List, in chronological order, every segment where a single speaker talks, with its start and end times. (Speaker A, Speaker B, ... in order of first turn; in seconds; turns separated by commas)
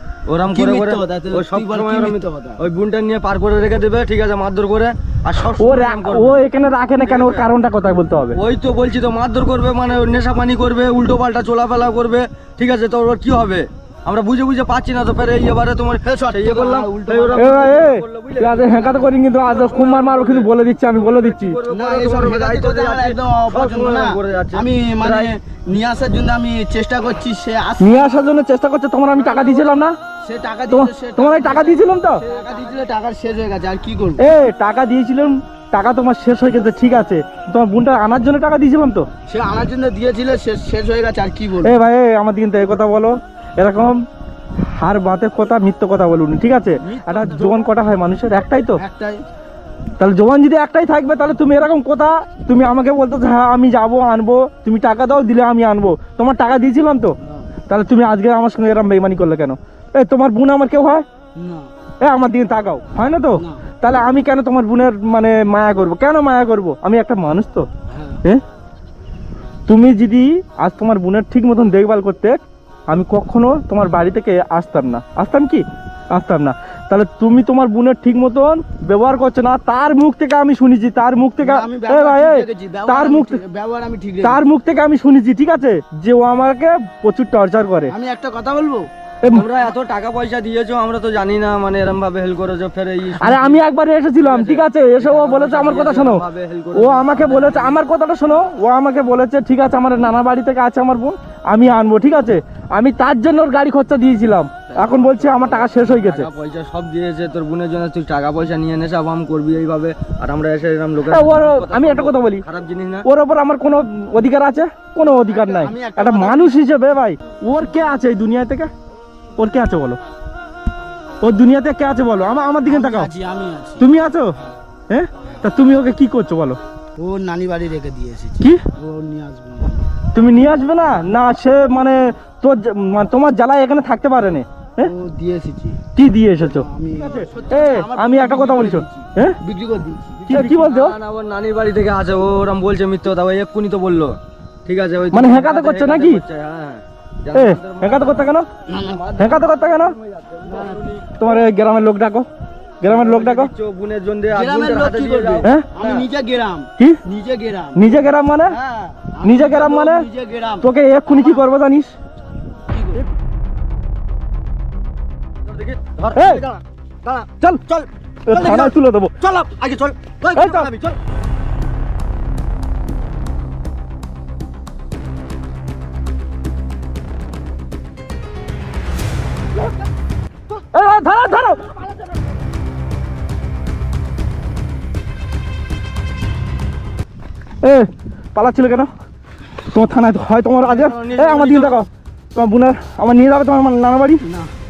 Speaker A: 0.3-6.4, Speaker B: 0.5-2.6, Speaker C: 5.5-8.4, Speaker A: 7.0-7.5, Speaker A: 8.4-25.3, Speaker B: 16.0-17.8, Speaker C: 17.3-21.6, Speaker B: 21.7-28.1, Speaker C: 27.8-30.0, Speaker B: 29.1-34.3, Speaker C: 30.7-32.2, Speaker C: 34.2-39.1, Speaker B: 39.3-41.8, Speaker C: 41.6-44.0, Speaker C: 44.6-48.8, Speaker B: 46.8-47.7, Speaker B: 48.8-49.2, Speaker C: 50.0-57.1, Speaker B: 57.2-57.5, Speaker C: 57.7-61.0, Speaker B: 61.4-61.7, Speaker C: 62.0-67.7, Speaker B: 63.4-63.6, Speaker B: 67.9-68.2, Speaker C: 69.7-83.4, Speaker B: 81.4-84.4, Speaker C: 84.2-87.9, Speaker B: 87.9-88.9, Speaker A: 89.3-93.6, Speaker C: 93.2-96.2, Speaker A: 94.2-97.8, Speaker C: 96.7-106.3, Speaker A: 104.7-113.1, Speaker C: 111.1-112.4, Speaker C: 113.0-118.7, Speaker B: 115.1-116.6, Speaker C: 119.4-120.0, Speaker C: 121.2-123.1, Speaker B: 122.6-124.5, Speaker C: 123.8-124.3, Speaker C: 124.9-126.6, Speaker B: 127.0-129.9, Speaker C: 130.1-134.9, Speaker B: 134.8-135.8, Speaker C: 135.9-139.4, Speaker B: 136.4-140.4, Speaker C: 140.2-141.0, Speaker A: 140.2-151.3, Speaker C: 145.1-146.2, Speaker C: 147.3-148.5, Speaker B: 148.7-149.0, Speaker C: 149.2-149.9, Speaker B: 150.4-150.8, Speaker C: 151.2-152.3, Speaker C: 152.8-153.5, Speaker A: 152.8-156.1, Speaker B: 154.3-161.4, Speaker C: 155.4-155.7, Speaker C: 157.8-158.6, Speaker C: 159.2-160.1, Speaker C: 160.6-161.9, Speaker B: 162.7-163.0, Speaker A: 165.4-171.0, Speaker C: 166.1-166.4, Speaker C: 168.3-169.1, Speaker C: 170.3-170.7, Speaker C: 180.7-182.0, Speaker C: 187.6-188.9, Speaker C: 189.7-194.2, Speaker A: 190.6-191.8, Speaker B: 194.2-194.5